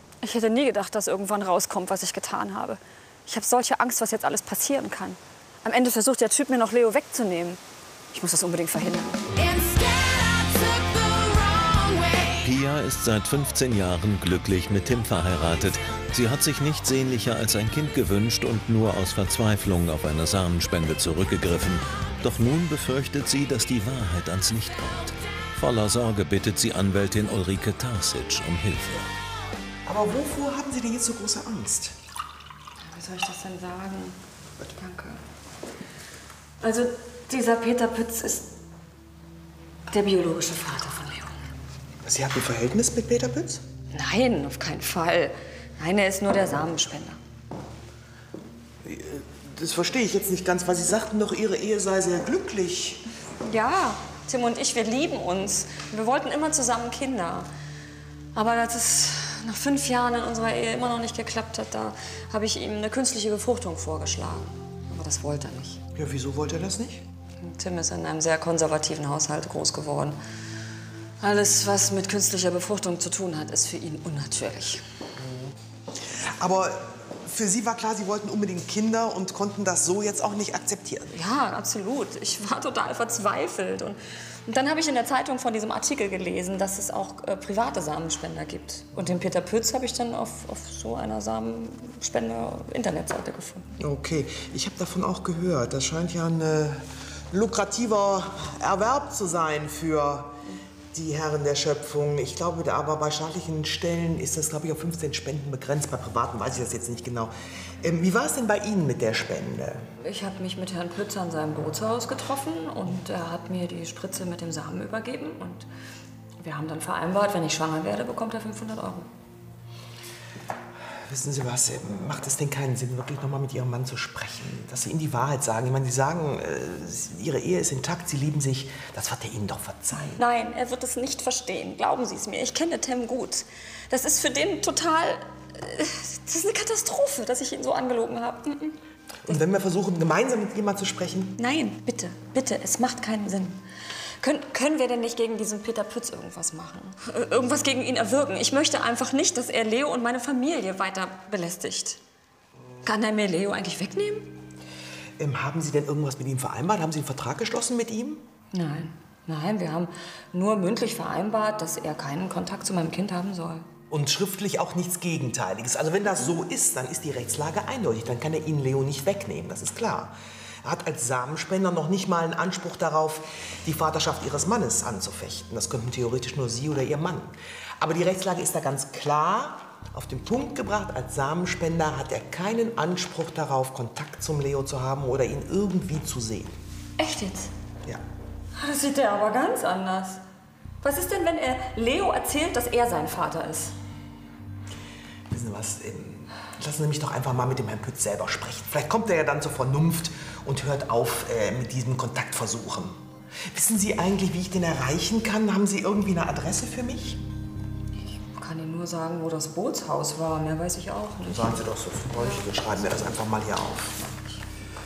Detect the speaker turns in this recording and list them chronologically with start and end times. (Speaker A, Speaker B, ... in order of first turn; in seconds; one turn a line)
Speaker A: 0.2-7.6
Speaker A: 8.1-9.2
Speaker B: 12.4-29.1
Speaker C: 29.9-31.9
Speaker A: 32.8-34.2
Speaker A: 34.8-35.2
Speaker A: 36.6-38.5
Speaker A: 39.9-41.4
Speaker C: 42.0-43.6
Speaker A: 43.9-47.2
Speaker C: 48.8-53.0
Speaker A: 53.4-57.5
Speaker A: 58.3-65.8
Speaker C: 65.9-67.0
Speaker A: 67.4-70.2
Speaker A: 71.2-74.8
Speaker C: 75.2-75.5
Speaker C: 76.2-81.1
Speaker A: 81.1-93.7
Speaker C: 93.8-100.3
Speaker C: 100.9-109.8
Speaker A: 110.0-115.7
Speaker A: 116.4-119.1
Speaker C: 121.1-130.2
Speaker A: 130.1-138.8
Speaker C: 139.2-141.3
Speaker A: 141.4-143.6
Speaker A: 144.2-152.0
Speaker A: 152.8-154.3
Speaker C: 155.2-158.2
Speaker A: 158.5-163.7
Speaker C: 163.9-186.6
Speaker A: 187.0-187.5
Speaker A: 188.6-190.2
Speaker A: 190.8-193.7
Speaker C: 195.3-203.0
Speaker C: 203.5-207.2
Speaker A: 208.2-211.6
Speaker C: 211.3-214.0
Speaker A: 212.2-212.6